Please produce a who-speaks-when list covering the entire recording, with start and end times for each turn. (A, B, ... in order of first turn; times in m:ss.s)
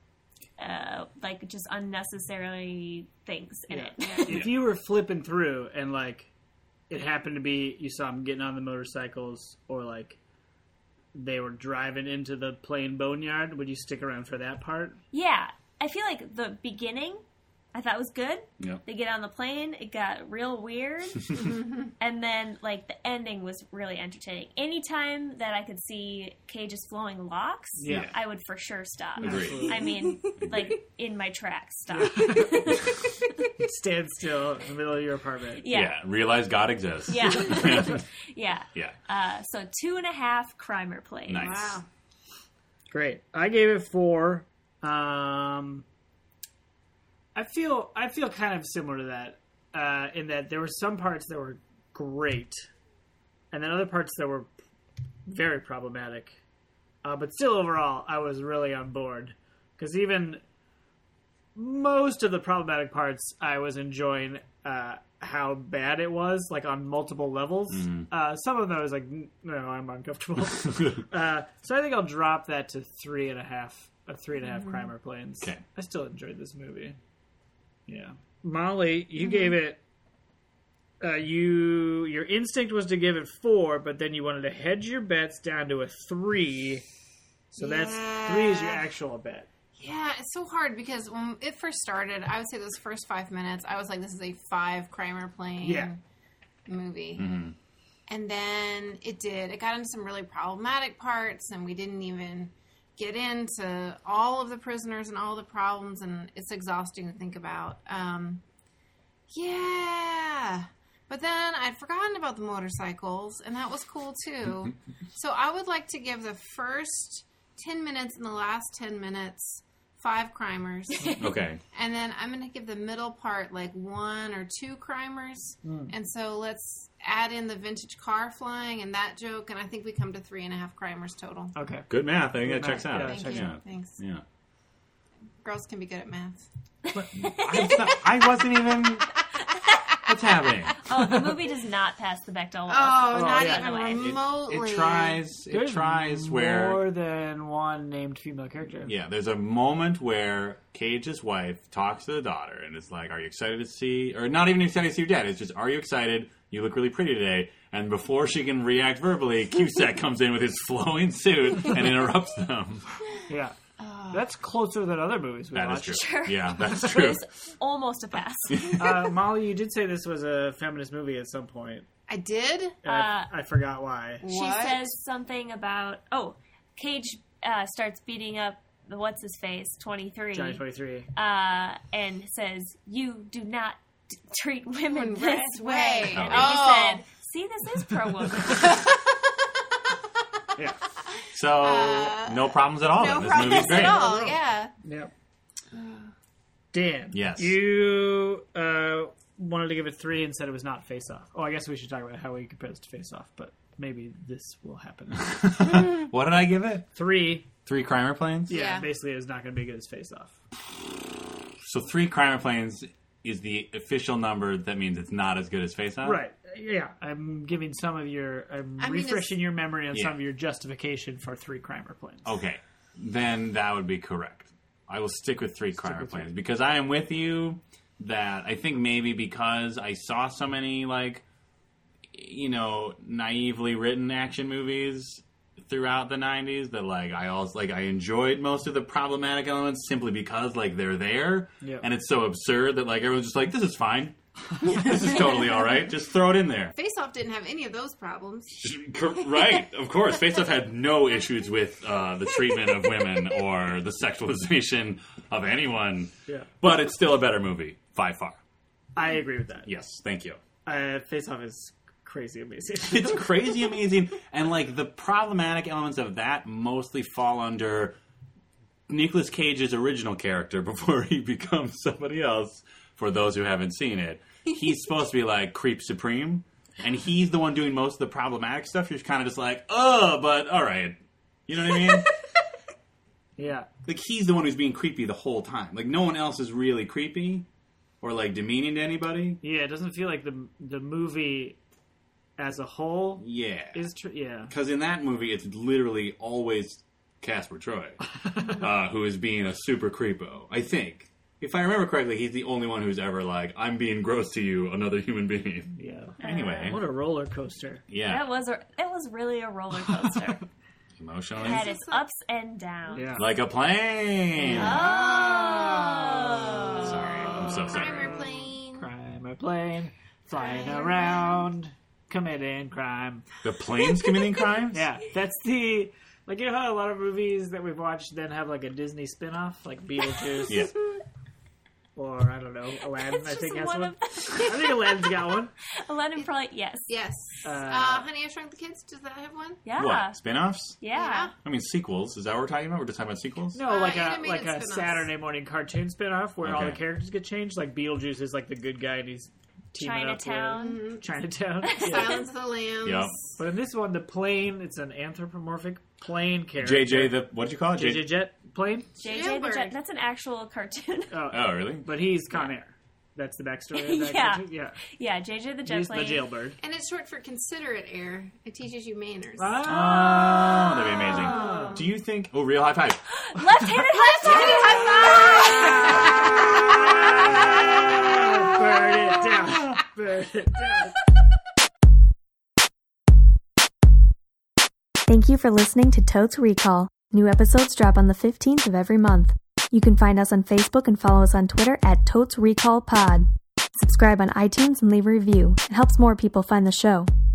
0:00.6-0:04.5 A
0:03.7-0:06.3 B
0:04.0-0:04.3 C
0:06.9-0:10.2 B
0:11.1-0:15.0 B
0:15.1-0:17.2 A
0:17.7-0:33.3 A
0:27.8-0:28.1 B
0:27.9-0:28.1 D
0:29.2-0:29.8 D
0:29.2-0:29.8 B
0:29.6-0:30.7 C
0:32.0-0:32.8 B
0:33.6-0:35.6 B
0:35.6-0:36.0 A
0:35.7-0:38.0 D
0:37.1-0:41.6 A
0:41.3-0:41.8 D
0:41.4-0:41.9 C
0:42.9-0:45.8 B
0:47.4-0:52.7 B
0:53.5-0:54.5 B
0:55.3-0:56.4 B
0:57.0-1:00.4 B
1:01.6-1:17.0 B
1:07.7-1:08.1 D
1:17.9-1:19.8 B
1:19.2-1:19.5 C
1:21.0-1:26.8 B
1:27.5-1:29.5 B
1:27.6-1:28.8 C
1:29.8-1:36.0 C
1:35.6-1:35.9 B
1:36.7-1:37.3 C
1:37.2-1:37.6 D
1:38.1-1:48.4 C
1:49.3-2:11.5 C
2:01.2-2:01.6 D
2:05.6-2:05.9 B
2:11.5-2:13.5 B
2:11.9-2:14.2 D
2:12.9-2:14.0 C
2:15.4-2:16.4 C
2:17.0-2:19.1 D
2:20.0-2:20.8 D
2:20.8-2:24.2 A
2:20.9-2:21.3 B
2:22.7-2:25.2 C
2:23.1-2:23.7 B
2:23.9-2:26.8 D
2:25.5-2:28.9 B
2:28.9-2:43.0 D
2:43.3-2:43.6 B
2:43.8-2:44.2 C
2:44.1-2:46.0 B
2:45.6-2:47.2 D
2:45.9-2:48.8 A
2:48.5-2:48.8 D
2:48.8-2:51.9 B
2:52.1-2:52.8 C
2:52.8-2:54.2 B
2:52.9-2:53.3 A
2:54.2-2:54.9 C
2:54.3-3:00.6 A
3:00.3-3:01.1 B
3:01.1-3:08.8 A
3:04.9-3:07.0 C
3:06.1-3:06.6 D
3:08.4-3:09.1 C
3:11.2-3:14.7 C
3:11.3-3:14.2 D
3:13.4-3:15.1 B
3:15.7-3:16.1 C
3:16.7-3:25.4 B
3:17.1-3:17.6 D
3:25.2-3:26.9 D
3:27.0-3:27.5 B
3:27.7-3:28.5 D
3:28.5-3:30.4 B
3:28.5-3:28.9 C
3:31.6-3:36.2 D
3:36.0-3:42.3 B
3:38.8-3:39.4 C
3:42.2-3:51.2 D
3:45.9-3:46.3 B
3:52.1-4:06.8 D
4:01.6-4:01.9 B
4:06.7-4:08.6 C
4:08.6-4:18.4 D
4:19.0-4:19.7 B
4:19.6-4:20.4 D
4:20.7-4:23.3 B
4:22.8-4:28.0 D
4:28.9-4:42.1 D
4:43.4-4:43.7 B
4:43.8-4:47.4 D
4:48.0-4:49.4 D
4:49.4-4:51.6 B
4:52.4-4:54.5 B
4:53.2-4:53.8 D
4:54.5-5:06.8 D
5:05.8-5:07.8 B
5:06.2-5:06.8 A
5:07.9-5:08.2 D
5:08.0-5:10.4 A
5:11.0-5:11.7 D
5:11.4-5:12.0 C
5:11.4-5:13.2 A
5:12.9-5:13.3 B
5:13.2-5:14.9 D
5:14.5-5:16.2 B
5:14.5-5:17.1 A
5:14.6-5:18.9 C
5:16.8-5:18.1 D
5:17.7-5:23.2 B
5:20.3-5:21.5 C
5:23.4-5:24.9 D
5:24.7-5:30.7 B
5:30.5-5:30.8 D
5:32.0-5:35.5 B
5:33.0-5:36.9 A
5:36.9-5:39.6 C
5:37.4-5:38.1 B
5:39.6-5:40.2 A
5:39.8-5:40.8 D
5:40.8-5:41.3 A
5:41.0-5:41.3 C
5:41.4-5:43.6 D
5:43.5-5:52.2 B
5:43.6-5:45.1 C
5:46.4-5:46.8 D
5:49.8-5:50.8 A
5:50.6-5:51.1 C
5:51.6-5:52.3 A
5:51.7-5:53.4 C
5:52.8-5:53.2 D
5:53.4-5:58.9 B
5:56.6-5:58.2 D
5:59.0-6:01.2 A
5:59.0-5:59.7 C
6:01.1-6:04.8 B
6:01.3-6:01.9 D
6:03.7-6:06.3 A
6:05.7-6:06.6 B
6:06.6-6:09.6 C
6:09.4-6:10.4 B
6:09.6-6:13.0 D
6:11.2-6:11.8 B
6:11.3-6:11.8 C
6:13.1-6:16.1 A
6:14.3-6:15.8 C
6:14.3-6:15.2 B
6:16.5-6:21.0 B
6:25.1-6:33.3 E
6:33.8-6:37.1 E